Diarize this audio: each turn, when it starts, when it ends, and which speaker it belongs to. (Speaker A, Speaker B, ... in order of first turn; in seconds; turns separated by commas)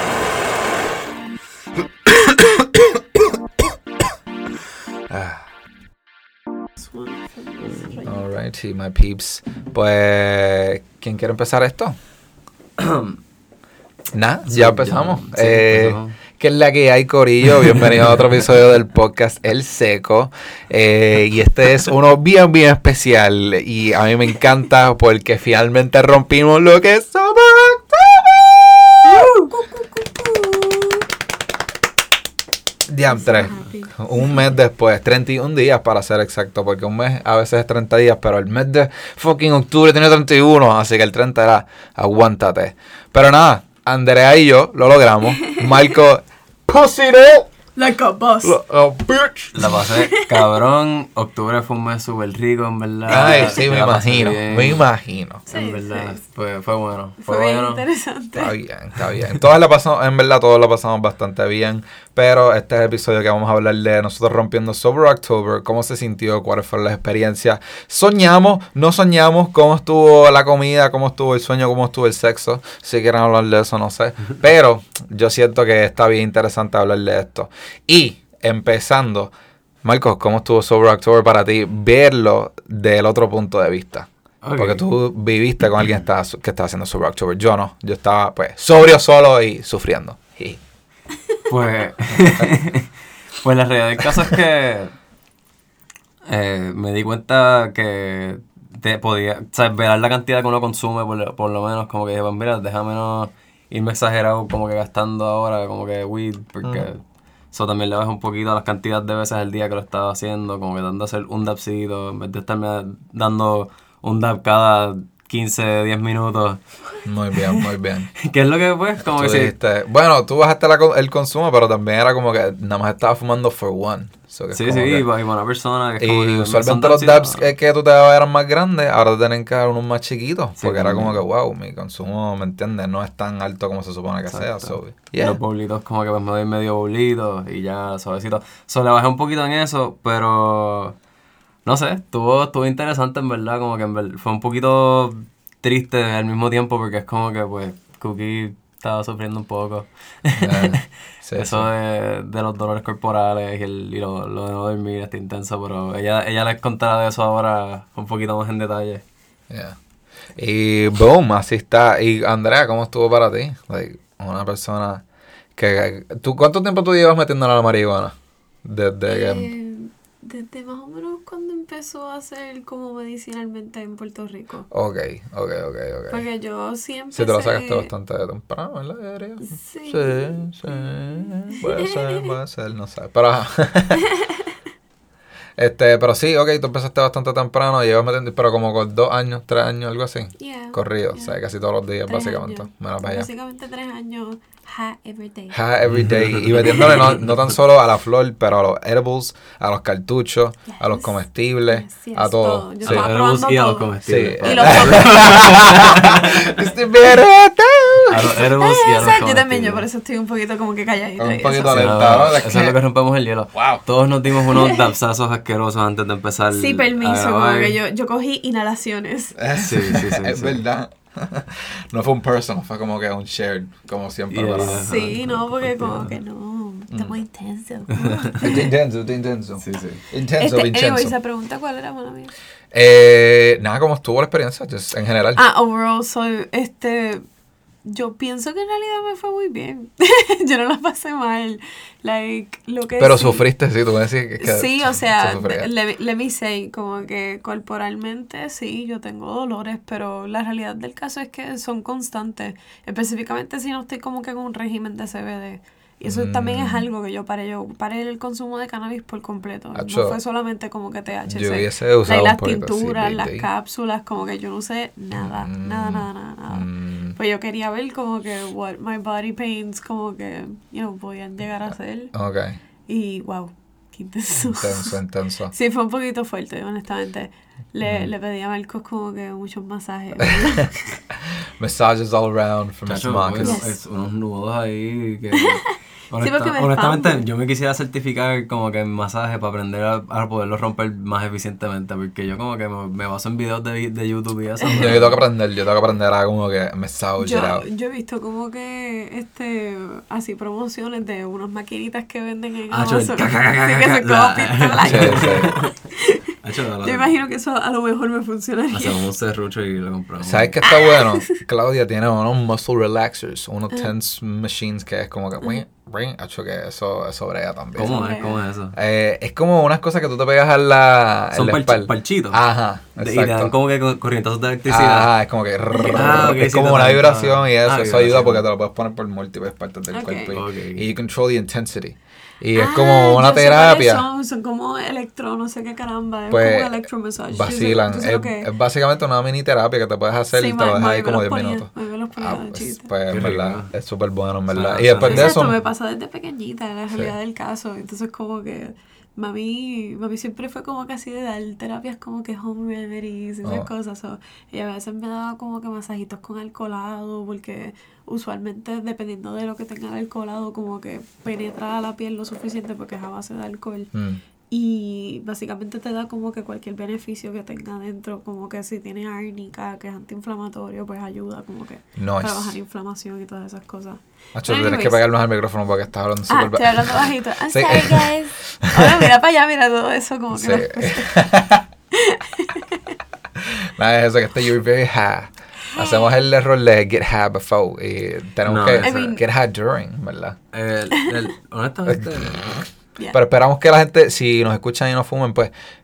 Speaker A: 5.1-5.5, Speaker B: 6.8-8.2, Speaker A: 8.0-12.0, Speaker C: 12.8-13.2, Speaker A: 14.1-29.3, Speaker C: 14.5-16.1, Speaker B: 29.0-31.0, Speaker A: 32.9-47.5, Speaker B: 33.1-34.4, Speaker B: 47.8-48.6, Speaker A: 48.4-49.7, Speaker C: 49.5-54.8, Speaker B: 49.9-50.5, Speaker A: 53.1-55.5, Speaker B: 53.1-53.6, Speaker C: 55.5-57.8, Speaker B: 55.5-56.2, Speaker B: 57.2-58.5, Speaker A: 58.3-79.3, Speaker A: 79.8-90.6, Speaker C: 84.4-84.8, Speaker C: 91.5-94.9, Speaker A: 92.1-92.5, Speaker C: 96.3-107.0, Speaker C: 107.5-116.6, Speaker A: 117.0-118.1, Speaker C: 118.2-119.5, Speaker A: 119.0-125.1, Speaker C: 124.5-127.5, Speaker A: 126.0-135.4, Speaker C: 130.6-131.2, Speaker C: 134.3-140.9, Speaker C: 141.6-159.0, Speaker A: 150.4-151.7, Speaker A: 159.5-159.8, Speaker A: 160.3-165.0, Speaker A: 165.6-169.5, Speaker B: 169.1-174.7, Speaker A: 174.7-176.2, Speaker B: 176.1-177.9, Speaker A: 177.1-184.0, Speaker B: 179.4-181.0, Speaker B: 181.5-182.3, Speaker A: 185.6-193.3, Speaker B: 190.4-191.3, Speaker B: 192.1-195.6, Speaker A: 195.5-203.1, Speaker C: 195.9-197.6, Speaker B: 200.7-205.5, Speaker C: 202.8-206.5, Speaker A: 204.1-208.4, Speaker C: 208.1-209.8, Speaker B: 208.6-211.9, Speaker A: 211.2-212.8, Speaker C: 211.7-217.8, Speaker A: 213.5-213.8, Speaker B: 214.5-214.9, Speaker B: 216.5-219.3, Speaker A: 219.4-224.8, Speaker C: 219.6-220.6, Speaker C: 224.3-226.2, Speaker B: 224.6-228.7, Speaker A: 226.9-227.2, Speaker C: 228.0-228.4, Speaker A: 228.4-231.1, Speaker C: 229.6-230.0, Speaker B: 230.4-232.3, Speaker A: 232.7-235.4, Speaker B: 235.3-237.2, Speaker B: 237.8-243.4, Speaker A: 243.0-245.7, Speaker B: 244.4-272.1, Speaker A: 256.1-256.9, Speaker A: 259.7-260.1, Speaker A: 261.3-263.5, Speaker A: 265.2-267.2, Speaker A: 272.1-272.6, Speaker B: 272.9-274.9, Speaker A: 274.4-275.5, Speaker B: 275.5-281.0, Speaker A: 277.8-278.1, Speaker A: 281.6-283.6, Speaker C: 282.9-295.2, Speaker B: 283.4-283.7, Speaker B: 285.4-287.2, Speaker B: 294.6-294.9, Speaker A: 294.7-297.6, Speaker B: 297.2-309.0, Speaker C: 302.7-305.7, Speaker A: 304.8-305.5, Speaker C: 306.4-307.1, Speaker C: 308.7-310.6, Speaker A: 310.2-318.0, Speaker B: 310.6-311.4, Speaker C: 317.8-318.8, Speaker B: 317.8-318.4, Speaker A: 318.7-323.5, Speaker C: 321.3-322.4, Speaker C: 323.0-325.1, Speaker A: 324.7-334.0, Speaker B: 325.8-326.1, Speaker C: 325.8-328.4, Speaker B: 329.9-330.3, Speaker C: 330.3-330.9, Speaker B: 332.5-338.5, Speaker A: 336.3-336.7, Speaker A: 337.3-345.6, Speaker B: 340.3-342.9, Speaker C: 343.1-343.7, Speaker C: 344.5-345.4, Speaker B: 345.0-363.9, Speaker A: 353.4-353.7, Speaker A: 363.9-364.2, Speaker B: 364.5-375.0, Speaker A: 372.0-372.6, Speaker A: 374.3-378.1, Speaker B: 376.3-381.3, Speaker A: 378.6-379.1, Speaker A: 380.3-381.6, Speaker B: 381.9-382.8, Speaker A: 383.4-390.4, Speaker B: 385.7-386.1, Speaker C: 388.4-389.0, Speaker B: 388.8-389.2, Speaker C: 390.5-392.5, Speaker A: 391.9-395.5